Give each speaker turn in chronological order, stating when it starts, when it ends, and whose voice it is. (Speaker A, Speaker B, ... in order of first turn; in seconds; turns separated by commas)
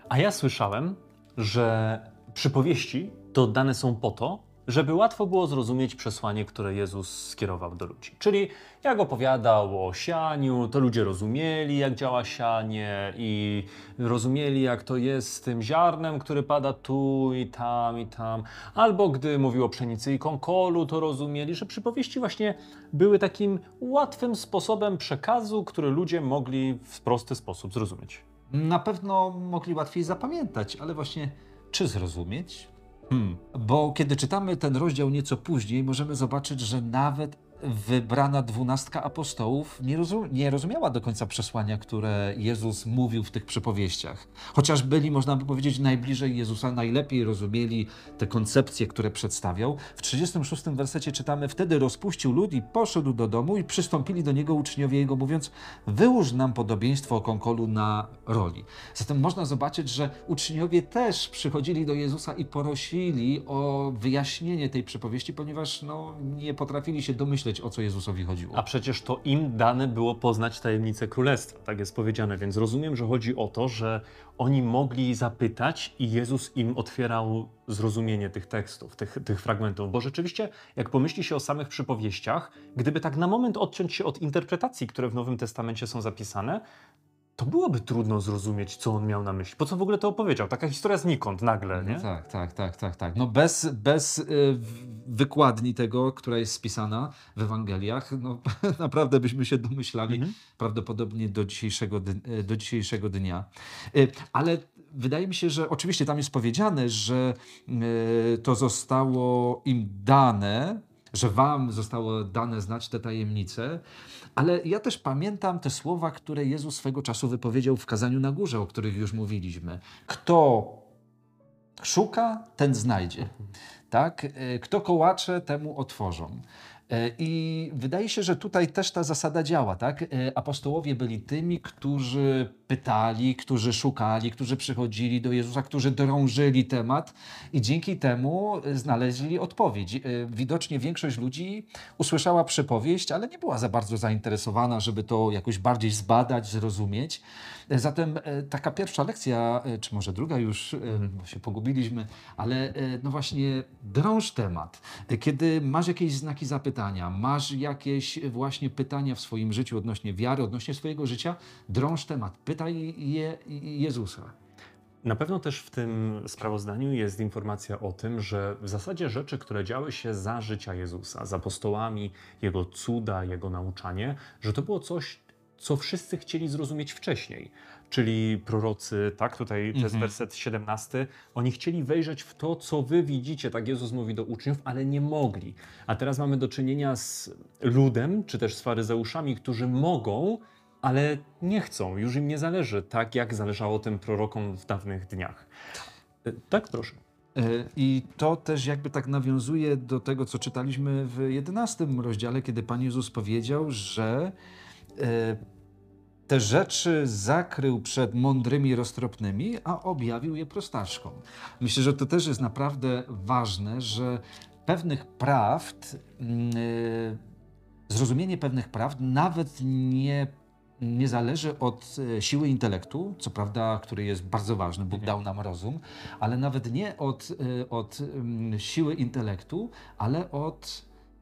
Speaker A: 0.1-28.2, Speaker B: 28.5-68.6, Speaker A: 68.5-86.6, Speaker A: 87.4-92.1, Speaker B: 91.7-113.8, Speaker A: 100.1-100.4, Speaker B: 114.4-120.9, Speaker B: 121.8-123.4, Speaker B: 123.9-164.3, Speaker A: 165.0-195.5, Speaker B: 179.7-180.2, Speaker A: 196.2-197.0, Speaker B: 197.3-204.3, Speaker B: 205.0-205.4, Speaker B: 206.3-217.2, Speaker B: 217.9-230.9